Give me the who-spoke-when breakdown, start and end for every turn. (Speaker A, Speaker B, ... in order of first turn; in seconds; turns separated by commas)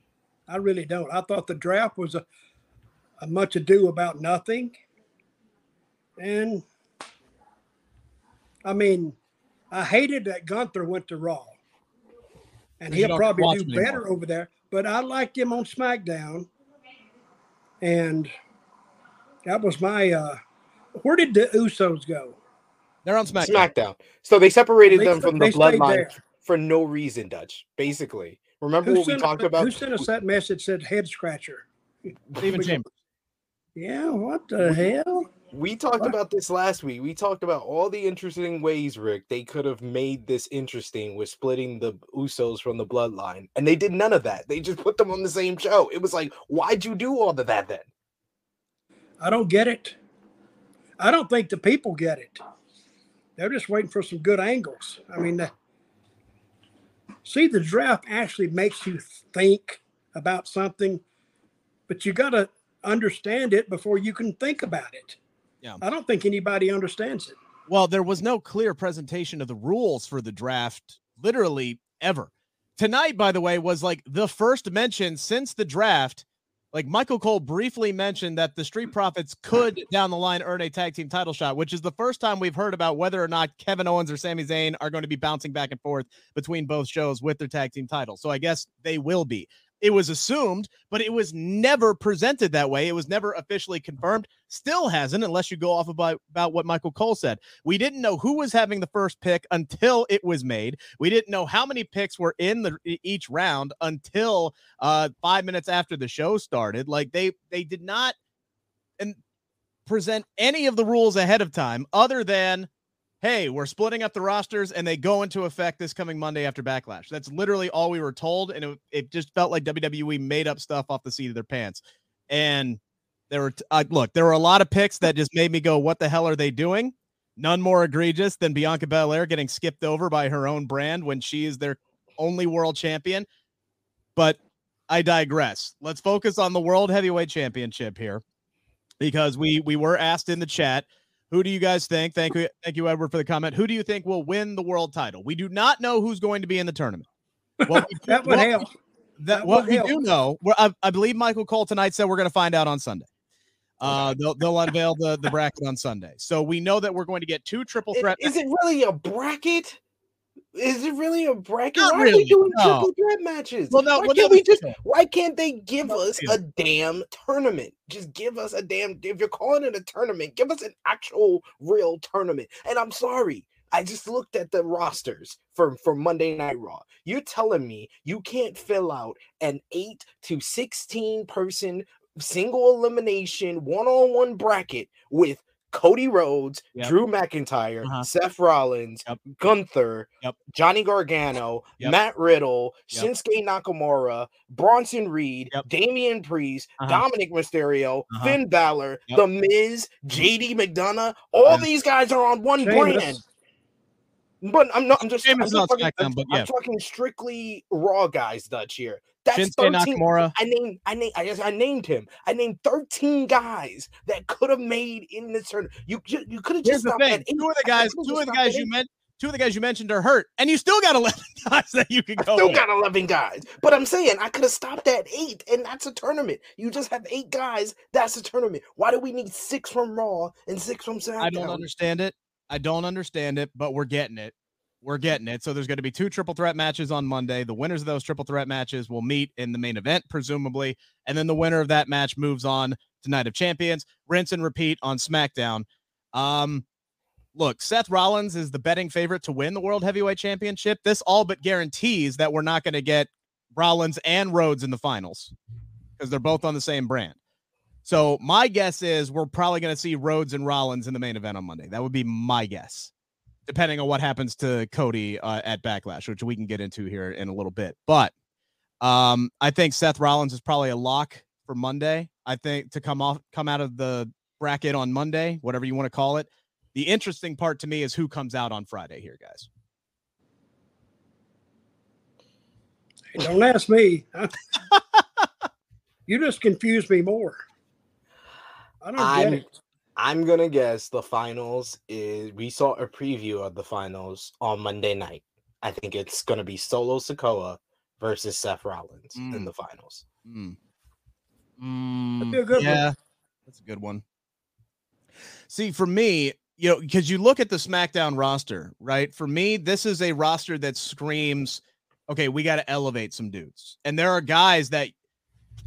Speaker A: 0.5-2.2, Speaker A: 3.2-4.8, Speaker A: 6.2-6.7, Speaker A: 8.7-9.2, Speaker A: 9.7-11.6, Speaker A: 12.8-16.5, Speaker B: 12.9-14.0, Speaker A: 17.8-18.3, Speaker A: 19.4-20.4, Speaker A: 21.0-22.4, Speaker B: 23.1-23.7, Speaker C: 23.4-30.0, Speaker A: 24.9-26.2, Speaker A: 28.9-31.7, Speaker A: 32.4-32.8, Speaker B: 32.4-32.9, Speaker A: 33.8-35.3, Speaker C: 35.5-47.9, Speaker A: 49.2-50.0, Speaker A: 51.0-52.4, Speaker A: 53.4-55.5, Speaker A: 57.2-61.0, Speaker A: 61.9-65.2, Speaker A: 65.8-67.4, Speaker B: 67.7-108.2, Speaker B: 109.9-112.7, Speaker B: 113.2-122.8, Speaker B: 123.3-133.3, Speaker B: 134.9-138.2, Speaker B: 139.0-147.1, Speaker A: 147.6-148.7, Speaker B: 147.7-148.7, Speaker B: 149.2-153.1, Speaker A: 149.3-150.0, Speaker B: 153.8-158.3, Speaker C: 157.9-159.8, Speaker C: 160.5-203.2, Speaker B: 161.8-162.9, Speaker B: 163.7-164.8, Speaker B: 166.1-166.4, Speaker A: 202.6-203.2, Speaker C: 204.4-218.7, Speaker B: 205.2-206.5, Speaker B: 209.3-210.3, Speaker B: 216.7-222.6, Speaker C: 222.2-231.6, Speaker B: 231.2-246.6, Speaker B: 247.4-255.3, Speaker B: 256.0-257.2, Speaker B: 257.9-262.9, Speaker B: 263.5-268.1, Speaker B: 268.8-279.5, Speaker A: 283.1-284.4, Speaker A: 286.1-287.4, Speaker A: 288.8-289.5, Speaker C: 289.0-289.4, Speaker C: 290.0-300.1, Speaker B: 299.1-299.5, Speaker B: 300.2-300.6, Speaker B: 301.6-302.9, Speaker A: 302.2-302.9, Speaker B: 303.5-304.0, Speaker B: 305.5-314.9